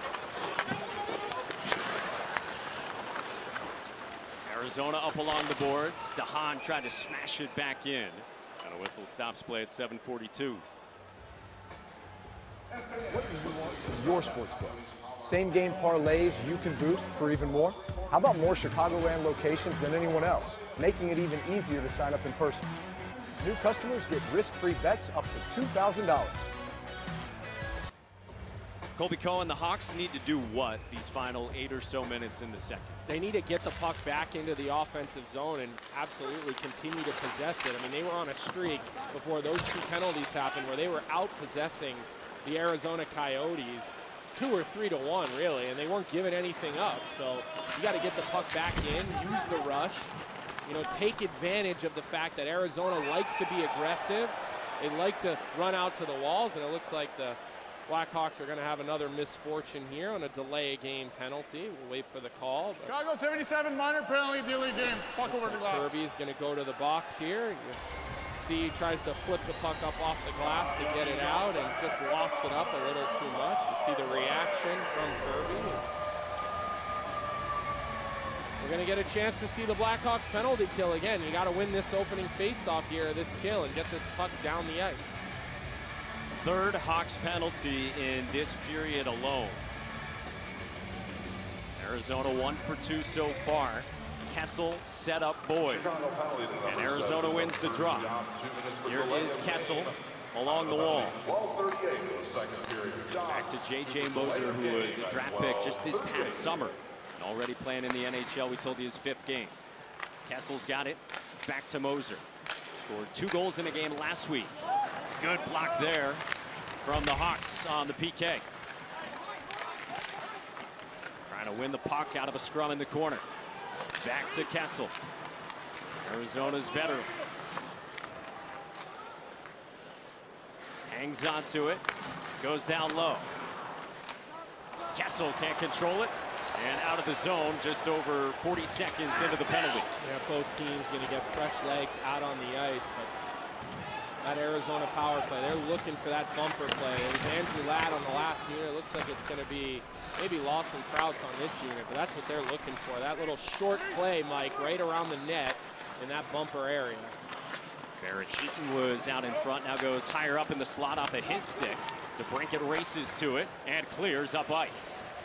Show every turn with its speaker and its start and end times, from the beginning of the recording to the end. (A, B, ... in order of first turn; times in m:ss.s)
0:04.4-0:10.6 A
0:13.1-0:22.7 B
0:23.4-0:26.4 B
0:29.0-0:33.0 A
0:33.1-0:50.1 C
0:50.6-1:02.9 C
1:02.8-1:05.9 D
1:05.2-1:07.8 C
1:08.3-1:15.8 C
1:18.6-1:25.3 C
1:26.3-1:29.6 A
1:31.8-1:35.9 A
1:35.6-1:46.8 E
1:36.6-1:38.1 A
1:38.8-1:41.2 A
1:43.2-1:49.6 A
1:50.2-1:54.6 A
1:55.2-1:56.2 A
1:56.8-1:58.4 A
2:01.3-2:03.3 A
2:04.0-2:05.0 A
2:06.0-2:07.1 A
2:10.9-2:11.9 A
2:12.4-2:13.3 A
2:14.9-2:19.9 A
2:20.0-2:23.1 C
2:24.2-2:37.2 C
2:38.0-2:45.0 A